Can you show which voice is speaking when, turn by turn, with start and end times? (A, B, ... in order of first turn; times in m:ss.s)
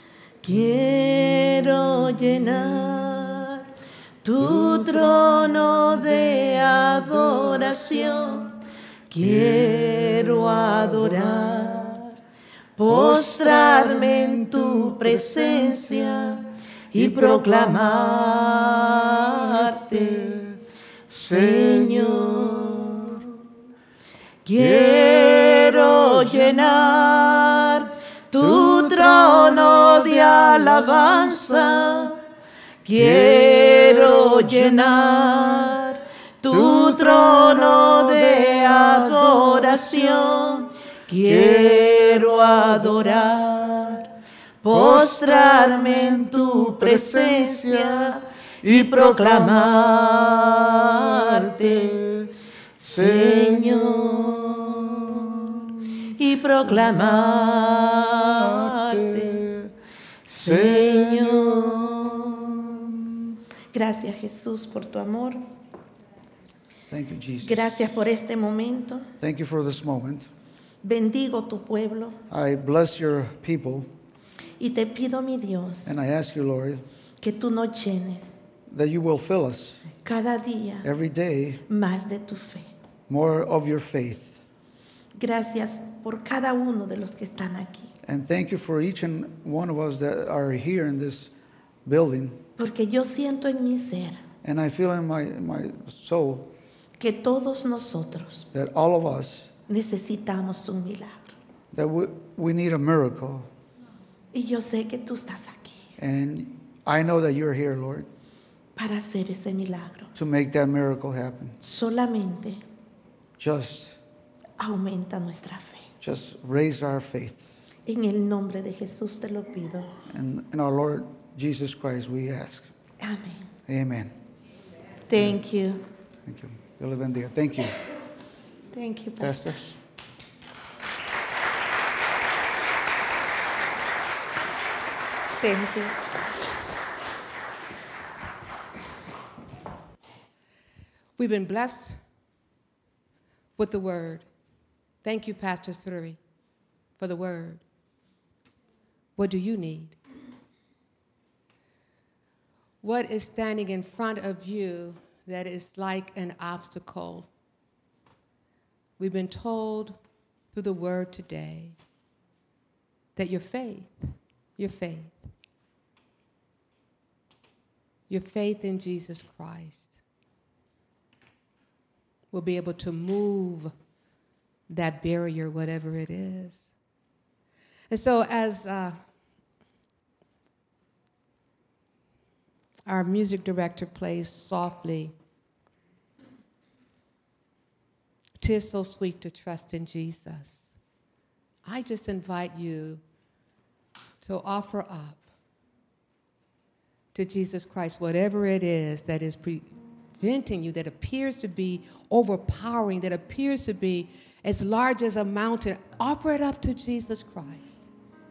0:00.4-0:03.6 A
0:04.2-0:08.6 A
0:09.1-0:12.1 A
0:12.8-0:20.5 A
0:21.2-0:23.2 A
0:24.4-0:32.2 A
0:32.8-0:44.1 A
0:36.8-0:39.6 B
0:44.6-0:52.0 A
0:44.7-0:50.3 B
0:51.4-0:54.4 B
0:52.8-0:54.9 A
0:55.0-0:55.5 B
0:56.1-0:59.4 A
0:58.4-0:59.7 B
1:00.3-1:01.8 B
1:00.3-1:02.9 A
1:03.7-1:05.4 A
1:06.9-1:07.7 B
1:07.4-1:09.1 A
1:09.2-1:10.3 B
1:10.8-1:12.2 A
1:12.3-1:13.9 B
1:14.6-1:15.9 A
1:15.8-1:16.8 B
1:17.2-1:18.3 A
1:18.7-1:19.8 B
1:20.0-1:20.9 A
1:20.8-1:21.6 B
1:21.7-1:22.7 A
1:23.1-1:24.4 B
1:25.1-1:27.9 A
1:28.0-1:31.3 B
1:31.8-1:32.4 B
1:32.6-1:34.2 A
1:34.4-1:36.5 B
1:37.0-1:38.5 A
1:38.5-1:39.5 B
1:39.7-1:41.3 A
1:41.7-1:43.5 B
1:44.3-1:45.9 A
1:46.0-1:48.1 B
1:48.8-1:50.1 A
1:50.1-1:51.6 B
1:51.6-1:52.6 A
1:53.4-1:54.0 B
1:54.6-1:55.9 A
1:56.0-1:57.4 B
1:57.8-1:59.9 A
2:00.1-2:02.7 B
2:03.0-2:03.5 A
2:03.7-2:04.1 B
2:05.1-2:05.8 A
2:06.2-2:07.8 B
2:08.7-2:09.6 A
2:09.2-2:09.6 B
2:15.4-2:16.0 A
2:21.2-2:22.0 C
2:23.6-2:24.2 C
2:25.0-2:26.2 C
2:27.0-2:27.6 C
2:29.2-2:30.0 C
2:32.8-2:37.3 C
2:39.0-2:40.0 C
2:40.5-2:41.8 C
2:43.2-2:45.3 C
2:48.1-2:50.0 C
2:52.3-2:53.7 C
2:54.7-2:56.7 C
2:57.9-2:59.0 C
3:02.8-3:05.1 C
3:08.4-3:10.7 C
3:11.6-3:13.0 C
3:14.2-3:15.3 C
3:17.1-3:27.9 C